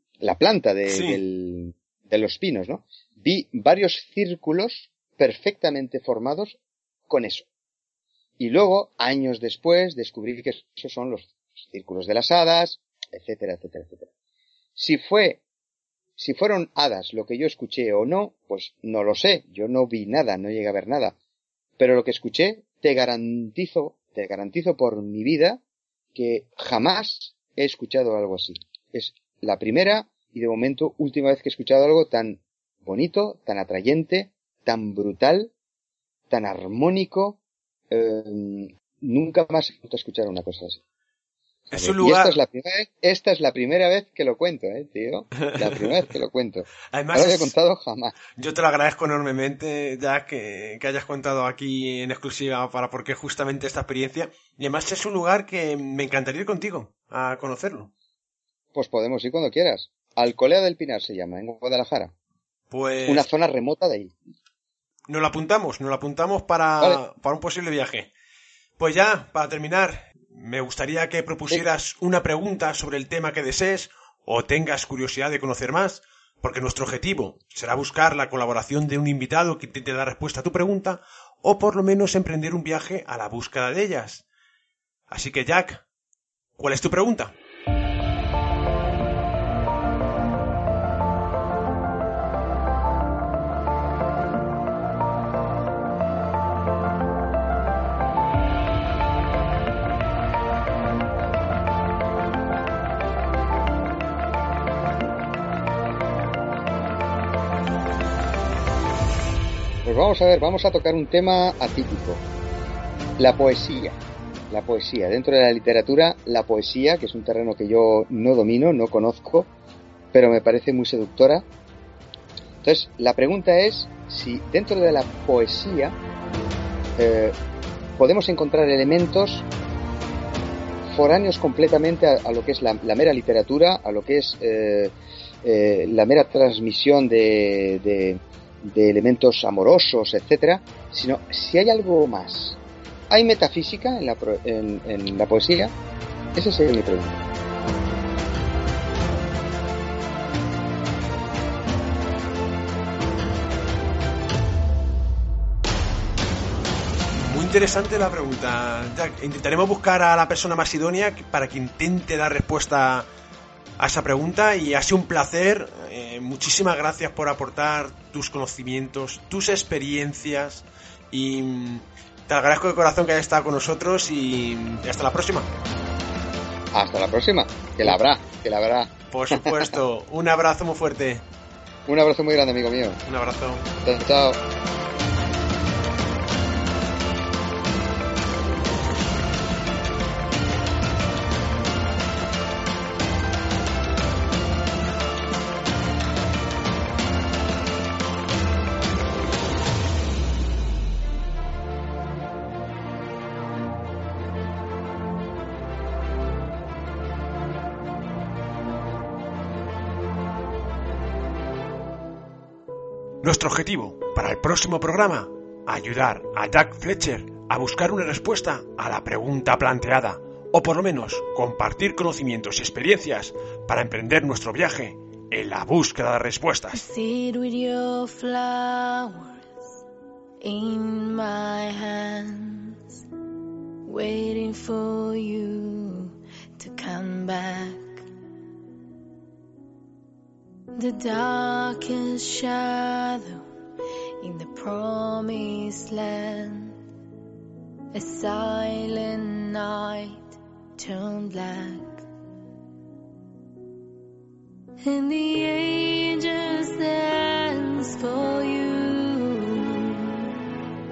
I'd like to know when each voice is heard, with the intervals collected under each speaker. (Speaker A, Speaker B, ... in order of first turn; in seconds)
Speaker A: 0.2-7.5, 8.4-14.1, 14.8-15.4, 16.2-21.2, 21.8-25.6, 26.1-35.5, 36.3-37.4, 37.9-40.8, 41.7-48.2, 58.7-62.1, 63.0-64.1, 109.8-112.2, 113.2-114.0, 114.5-119.5, 120.1-121.5, 122.6-126.0, 127.0-127.3, 128.0-129.5, 130.9-134.9, 135.4-142.6, 143.1-145.7, 146.3-147.2, 176.7-179.7, 181.9-183.0, 183.8-184.4
Speaker B: 0.9-1.2, 41.7-42.4, 46.9-47.5, 48.4-57.9, 62.7-63.3, 65.1-68.1, 68.8-84.2, 85.1-85.8, 86.6-87.3, 157.2-163.1, 163.8-175.5, 179.1-181.2, 183.1-183.7, 213.2-226.8
Speaker C: 226.7-229.5, 230.4-233.0, 233.8-238.1, 240.8-243.4, 244.2-246.8, 247.9-252.1, 254.8-260.3